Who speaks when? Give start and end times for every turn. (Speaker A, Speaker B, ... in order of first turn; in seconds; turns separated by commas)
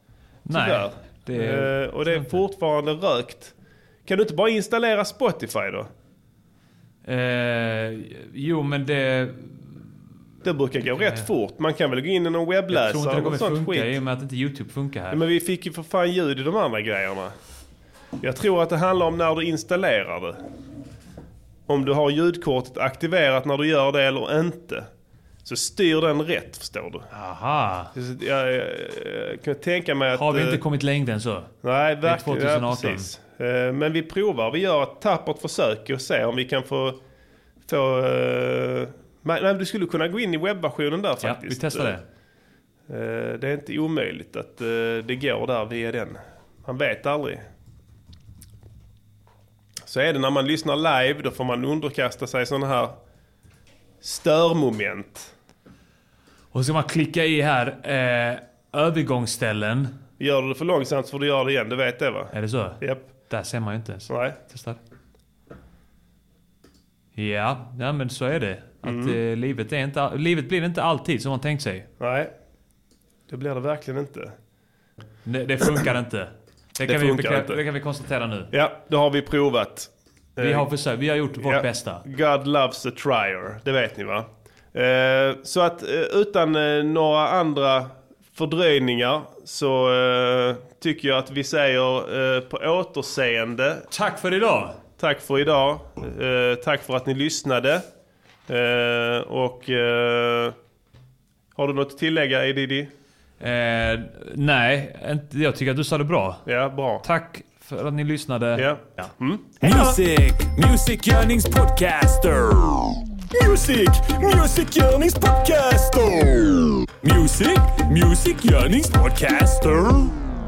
Speaker A: 0.5-2.4, Speaker B: 0.5-3.5, Speaker B: 4.1-5.9, Speaker A: 7.0-9.8, Speaker B: 10.4-14.0, Speaker A: 11.0-11.3, Speaker A: 12.7-15.2, Speaker B: 15.1-17.4, Speaker B: 18.2-20.4, Speaker B: 21.7-24.9, Speaker B: 25.4-27.1, Speaker A: 27.1-27.9, Speaker B: 27.9-30.6, Speaker A: 30.2-33.1, Speaker B: 31.6-37.0, Speaker B: 37.7-42.0, Speaker A: 41.2-42.0, Speaker B: 42.9-47.5, Speaker B: 49.9-53.0, Speaker B: 54.0-55.3, Speaker A: 56.5-59.9, Speaker B: 60.2-63.0, Speaker A: 62.3-64.8, Speaker B: 64.1-64.4, Speaker A: 67.2-71.9, Speaker B: 68.8-69.2, Speaker B: 72.0-72.3, Speaker B: 73.3-74.3, Speaker A: 75.2-78.5, Speaker B: 76.9-77.6, Speaker B: 78.5-80.7, Speaker A: 80.4-82.0, Speaker B: 81.4-93.9, Speaker A: 93.9-94.8, Speaker B: 95.0-97.9, Speaker B: 98.5-100.6, Speaker B: 101.5-102.9, Speaker A: 103.4-106.5, Speaker B: 106.5-107.0, Speaker A: 107.0-109.1, Speaker B: 108.5-109.7, Speaker C: 109.6-120.1